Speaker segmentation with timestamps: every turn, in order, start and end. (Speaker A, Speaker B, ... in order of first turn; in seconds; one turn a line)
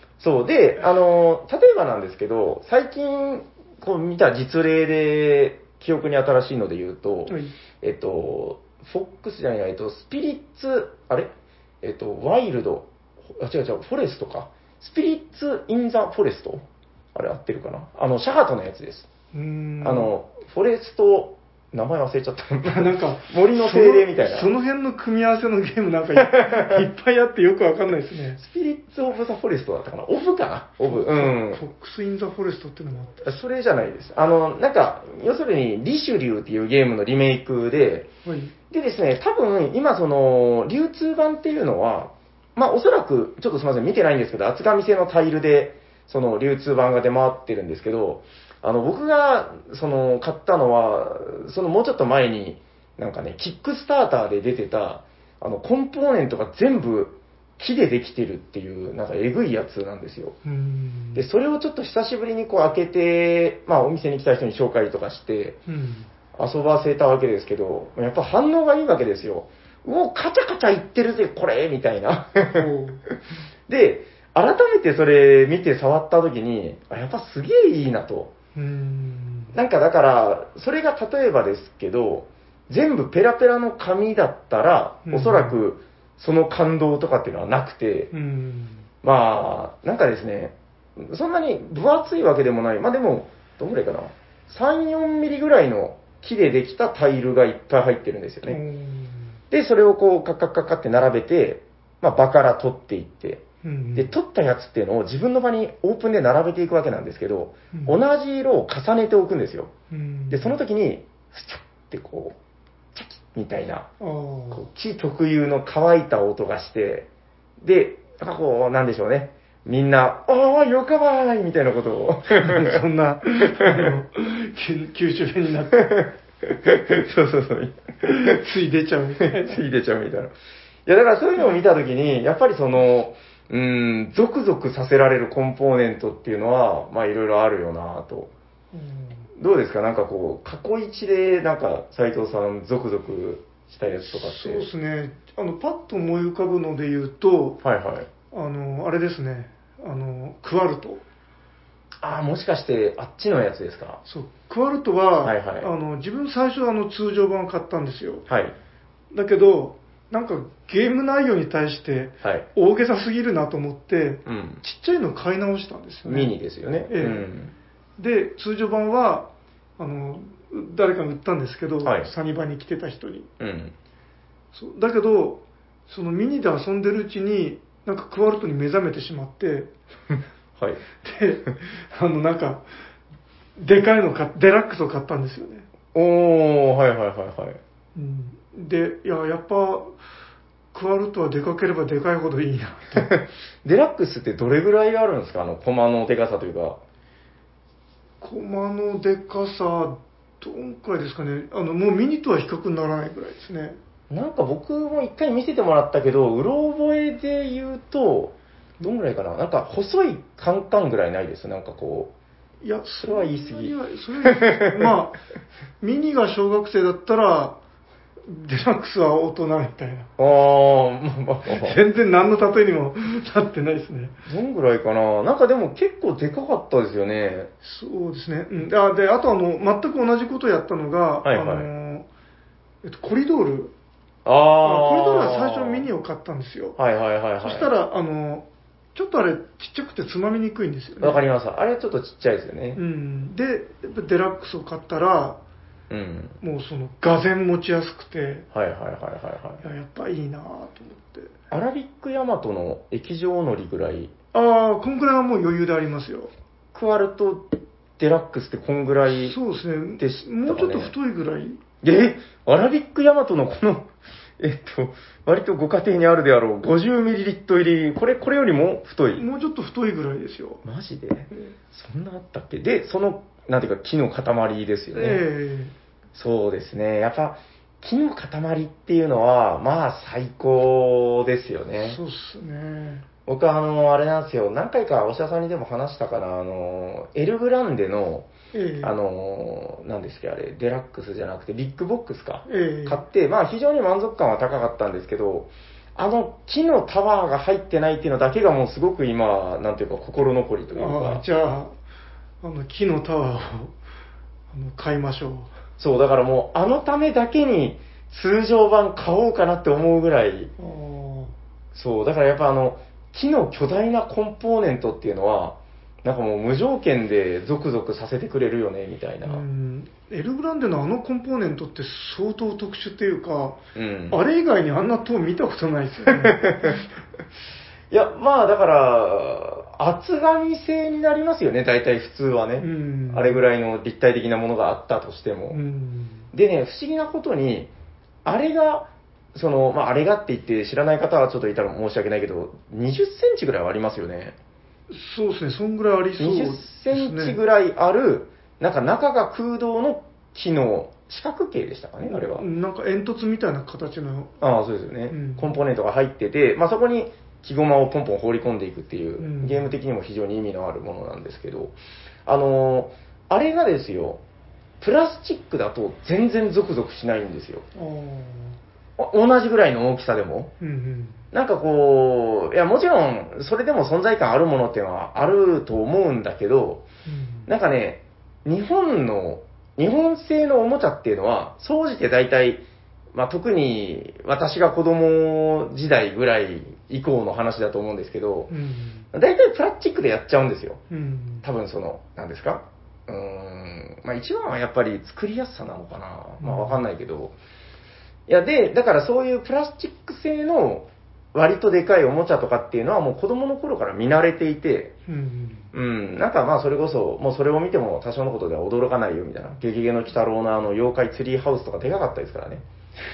Speaker A: 0.2-11.3
Speaker B: 7.3-7.5
Speaker A: 11.8-19.1
Speaker B: 19.3-20.1
Speaker A: 19.8-24.5
Speaker B: 22.6-28.4
Speaker A: 26.4-26.6
Speaker A: 28.4-31.6
Speaker B: 30.9-33.3
Speaker A: 33.2-38.1
Speaker B: 38.2-38.5
Speaker A: 38.7-60.4
Speaker B: 60.4-61.2
Speaker A: 61.1-65.6
Speaker B: 65.7-66.1
Speaker A: 66.3-72.7
Speaker B: 72.5-73.0
Speaker A: 73.7-78.3
Speaker B: 78.5-79.5
Speaker A: 79.5-88.1
Speaker B: 85.0-85.5
Speaker B: 88.1-88.8
Speaker A: 89.0-98.6
Speaker B: 98.5-99.2
Speaker A: 99.5-103.4
Speaker B: 103.6-104.1
Speaker A: 104.0-109.7
Speaker B: 107.7-108.0
Speaker B: 109.9-110.6
Speaker A: 110.3-112.4
Speaker A: 112.9-113.9
Speaker B: 114.0-114.6
Speaker A: 114.5-117.1
Speaker A: 117.6-122.8
Speaker B: 122.4-125.9
Speaker A: 123.5-123.9
Speaker A: 125.7-128.4
Speaker B: 128.0-129.6
Speaker A: 129.2-130.3
Speaker A: 130.8-138.3
Speaker B: 138.7-139.3
Speaker A: 139.3-144.7
Speaker B: 144.1-147.6
Speaker A: 147.6-148.1
Speaker B: 148.3-151.0
Speaker A: 152.0-154.0
Speaker B: 154.0-158.2
Speaker A: 155.2-155.7
Speaker A: 158.3-158.5
Speaker B: 159.1-166.3
Speaker A: 164.2-164.6
Speaker A: 166.0-167.5
Speaker B: 166.9-167.3
Speaker B: 168.0-173.3
Speaker A: 171.8-172.1
Speaker A: 173.4-173.7
Speaker B: 174.5-179.7
Speaker A: 180.6-180.8
Speaker B: 181.0-182.6
Speaker B: 183.6-185.7
Speaker A: 185.9-187.6
Speaker B: 187.9-189.9
Speaker B: 190.7-193.1
Speaker A: 192.9-196.8
Speaker B: 198.2-203.8
Speaker A: 204.1-212.1
Speaker B: 212.6-215.2
Speaker A: 213.0-213.7
Speaker A: 214.2-214.9
Speaker B: 215.8-217.6
Speaker B: 218.3-220.1
Speaker A: 220.2-221.8
Speaker B: 221.5-224.2
Speaker A: 224.2-227.5
Speaker B: 227.6-232.1
Speaker A: 231.2-231.7
Speaker B: 232.8-233.7
Speaker A: 234.2-235.9
Speaker B: 234.6-236.8
Speaker A: 236.8-237.7
Speaker B: 237.4-241.2
Speaker A: 241.0-242.8
Speaker B: 242.7-245.4
Speaker A: 245.9-246.4
Speaker B: 246.4-248.4
Speaker A: 248.5-249.6
Speaker B: 249.6-251.3
Speaker A: 251.5-254.1
Speaker B: 254.3-256.3
Speaker A: 256.7-259.4
Speaker B: 259.1-261.6
Speaker A: 260.0-260.9
Speaker A: 261.8-269.2
Speaker B: 269.1-270.6
Speaker A: 270.6-275.2
Speaker B: 274.9-275.7
Speaker A: 276.1-282.0
Speaker B: 281.8-283.1
Speaker A: 283.2-288.3
Speaker B: 288.5-288.9
Speaker A: 288.8-301.2
Speaker B: 292.5-293.0
Speaker B: 300.7-301.7
Speaker B: 302.4-303.7
Speaker B: 304.5-305.5
Speaker A: 305.8-310.5
Speaker B: 310.6-311.3
Speaker A: 311.7-319.4
Speaker B: 319.2-326.8
Speaker A: 323.7-324.2
Speaker A: 326.1-326.8
Speaker A: 327.9-335.6
Speaker B: 332.6-333.4
Speaker B: 335.5-336.2
Speaker A: 336.3-337.7
Speaker A: 338.2-344.4
Speaker B: 344.9-347.4
Speaker A: 346.2-352.4
Speaker B: 352.0-354.3
Speaker A: 354.4-361.7
Speaker B: 355.1-355.5
Speaker B: 359.2-359.7
Speaker A: 362.2-364.2
Speaker A: 364.8-367.6
Speaker B: 367.7-368.6
Speaker A: 369.0-370.5
Speaker B: 370.6-371.2
Speaker A: 371.3-376.8
Speaker B: 377.1-377.5
Speaker A: 377.5-382.6
Speaker A: 383.1-388.5
Speaker B: 388.5-389.1
Speaker A: 389.1-390.8
Speaker B: 390.9-391.5
Speaker A: 391.4-397.3
Speaker B: 396.4-396.8
Speaker A: 398.3-404.9
Speaker B: 405.1-405.7
Speaker A: 405.7-412.6